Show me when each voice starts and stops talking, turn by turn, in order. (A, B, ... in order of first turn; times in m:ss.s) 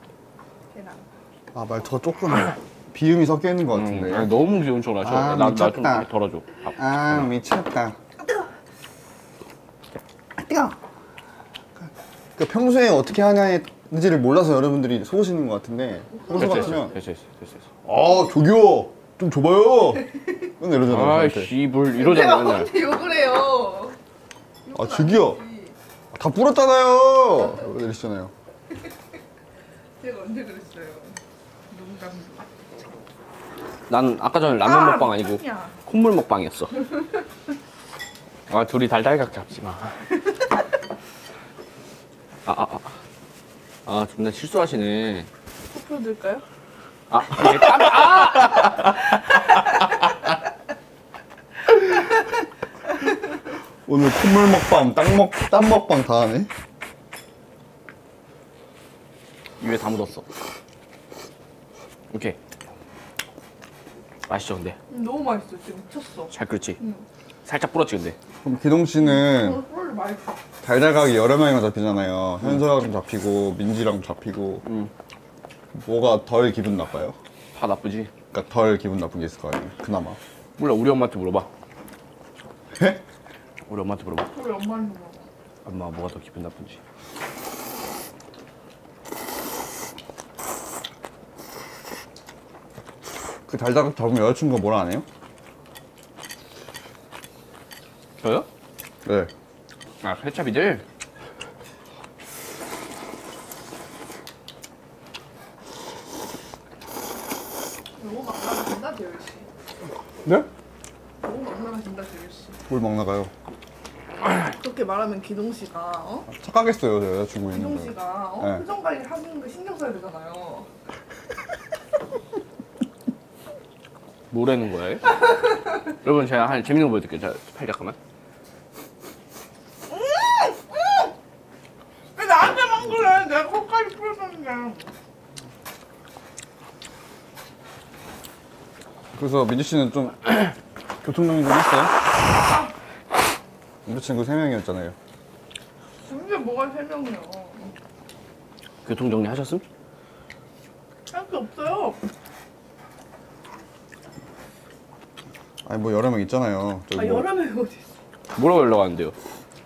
0:00.7-0:01.0 A
0:01.5-0:04.3 B
0:03.7-0:06.8 C
0:05.0-0:06.1 B
0:06.7-0:08.0 B
0:10.4-0:10.8 B
0:12.4-0:16.9 B
0:16.3-0:17.7 C
0:17.8-0:20.0 B
0:20.6-0:21.5 B
0:20.9-0:22.7 C
0:21.9-0:24.0 A
0:24.6-0:25.8 A
0:24.7-0:25.4 B
0:26.1-0:28.3 B
0:30.0-0:31.2 A
0:31.7-0:32.5 A
0:33.9-0:36.8 C
0:34.6-0:35.8 A
0:38.5-0:40.1 C
0:42.5-0:42.9 C
0:43.8-0:45.3 C
0:45.7-0:46.4 A
0:47.1-0:49.0 C
0:53.9-0:56.5 B
0:59.6-1:00.2 C
1:02.1-1:02.4 C
1:04.3-1:04.8 C
1:04.9-1:07.0 A
1:06.3-1:06.8 C
1:07.5-1:08.2 C
1:08.4-1:09.6 B
1:09.0-1:10.4 A
1:10.6-1:14.6 B
1:14.6-1:14.9 C
1:15.8-1:17.2 B
1:17.5-1:18.1 C
1:18.3-1:20.2 B
1:20.6-1:21.5 C
1:22.8-1:23.0 B
1:23.7-1:24.3 C
1:24.3-1:25.3 A
1:25.6-1:26.8 C
1:33.5-1:35.0 B
1:38.2-1:38.5 C
1:39.0-1:39.3 B
1:40.0-1:40.8 C
1:48.0-1:49.5 A
1:51.2-1:52.6 A
1:52.7-1:53.3 B
1:54.5-1:56.3 A
1:56.3-1:58.6 B
1:57.5-2:00.7 A
2:04.3-2:05.2 C
2:06.0-2:08.0 C
2:09.9-2:11.1 A
2:12.2-2:14.9 A
2:19.2-2:22.0 B
2:22.3-2:22.7 A
2:23.8-2:25.0 B
2:26.0-2:27.8 A
2:28.8-2:29.6 C
2:31.1-2:32.0 A
2:35.7-2:37.3 B
2:36.9-2:37.9 A
2:38.3-2:39.2 C